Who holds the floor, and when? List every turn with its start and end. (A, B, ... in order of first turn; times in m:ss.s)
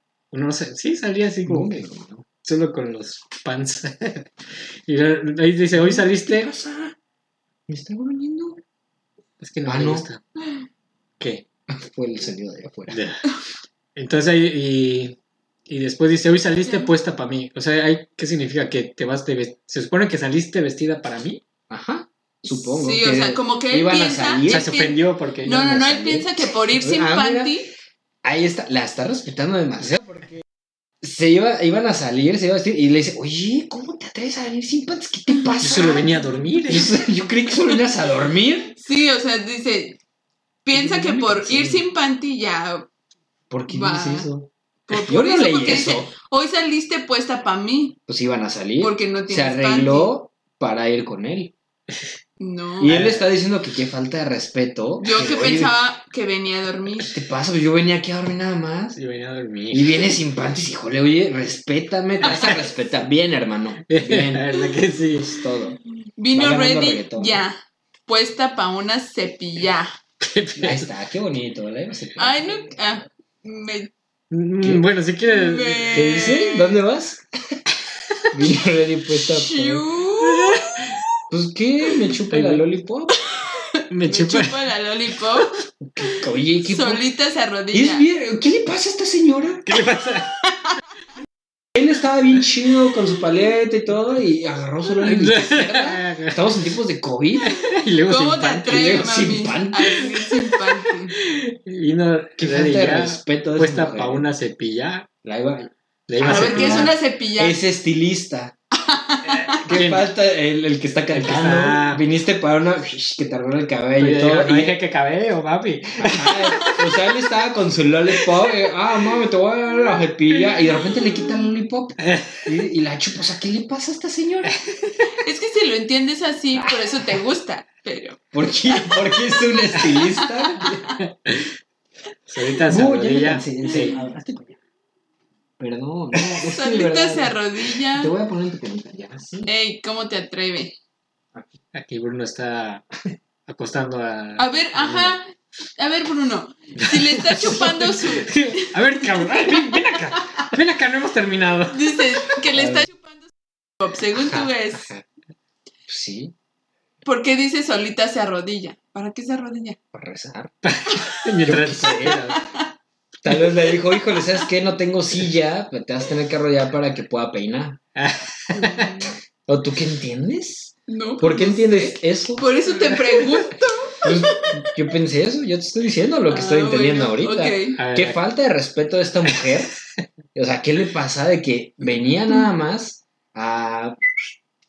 0:00.3-0:01.8 A
0:01.4-0:02.3 B
0:02.4-0:04.3 A
0:04.9-0:06.5 A
0:05.7-0:07.0 B
0:07.7-0:08.6 B
0:09.4-0:10.2 A
0:09.7-0:10.1 B
0:11.7-0:13.0 B
0:12.9-0:13.2 A
0:14.0-0:21.4 A
0:16.6-0:16.9 C
0:21.7-0:24.8 B
0:22.4-0:27.7 C
0:24.5-0:26.2 A
0:26.8-0:27.6 B
0:28.2-0:30.4 B
0:31.0-0:36.1 B
0:35.6-0:37.0 A
0:36.6-0:38.8 B
0:38.8-0:40.0 C
0:40.6-0:42.9 C
0:40.7-0:41.8 B
0:43.5-0:46.1 B
0:43.7-0:44.3 C
0:44.9-0:48.0 C
0:48.1-0:51.5 B
0:48.8-0:50.1 C
0:52.4-0:53.0 C
0:52.8-0:55.8 B
0:52.9-0:53.3 A
0:55.0-0:57.2 C
0:57.0-0:59.0 B
0:59.0-1:00.2 A
0:59.7-1:04.5 B
1:02.3-1:02.6 C
1:03.9-1:05.4 A
1:05.1-1:05.8 B
1:06.2-1:09.9 C
1:06.3-1:07.4 B
1:10.2-1:10.9 A
1:10.6-1:12.6 B
1:12.2-1:13.9 C
1:14.3-1:16.2 A
1:15.3-1:16.8 C
1:15.9-1:17.6 B
1:18.3-1:19.8 B
1:19.3-1:20.8 C
1:21.3-1:23.2 B
1:22.3-1:22.7 A
1:23.3-1:25.6 C
1:23.9-1:24.6 A
1:25.8-1:27.0 B
1:26.6-1:28.0 C
1:27.7-1:29.7 B
1:29.7-1:30.4 A
1:31.7-1:37.6 B
1:35.0-1:36.5 A
1:37.5-1:39.1 A
1:38.0-1:41.2 C
1:38.7-1:40.1 B
1:41.2-1:45.1 A
1:42.4-1:44.3 B
1:45.2-1:48.6 B
1:46.1-1:47.0 A
1:46.2-1:47.6 C
1:48.7-1:49.6 C
1:49.5-1:54.8 B
1:49.6-1:50.1 A
1:51.1-1:52.0 A
1:54.0-1:56.6 A
1:56.0-2:04.6 B
1:56.6-1:56.9 C
2:02.0-2:02.5 A
2:05.2-2:11.0 C
2:06.6-2:06.9 B
2:08.3-2:10.8 B
2:11.0-2:11.4 A
2:12.3-2:14.0 A
2:12.6-2:14.6 B
2:15.6-2:19.5 B
2:16.4-2:18.1 C
2:19.4-2:20.8 C
2:21.7-2:22.9 A
2:23.5-2:25.2 A
2:24.4-2:29.9 C
2:26.8-2:32.3 A
2:31.7-2:34.9 C
2:32.5-2:32.9 B
2:35.9-2:36.3 B
2:37.0-2:39.8 C
2:39.9-2:40.5 B
2:40.6-2:42.4 A
2:41.4-2:42.3 B
2:42.4-2:42.6 C
2:43.2-2:47.8 B
2:48.0-2:48.9 A
2:48.5-2:49.1 C
2:49.5-2:52.6 B
2:50.9-2:54.6 C
2:54.0-2:59.7 B
2:56.3-2:57.8 C
2:57.8-2:58.2 A
3:00.4-3:04.3 B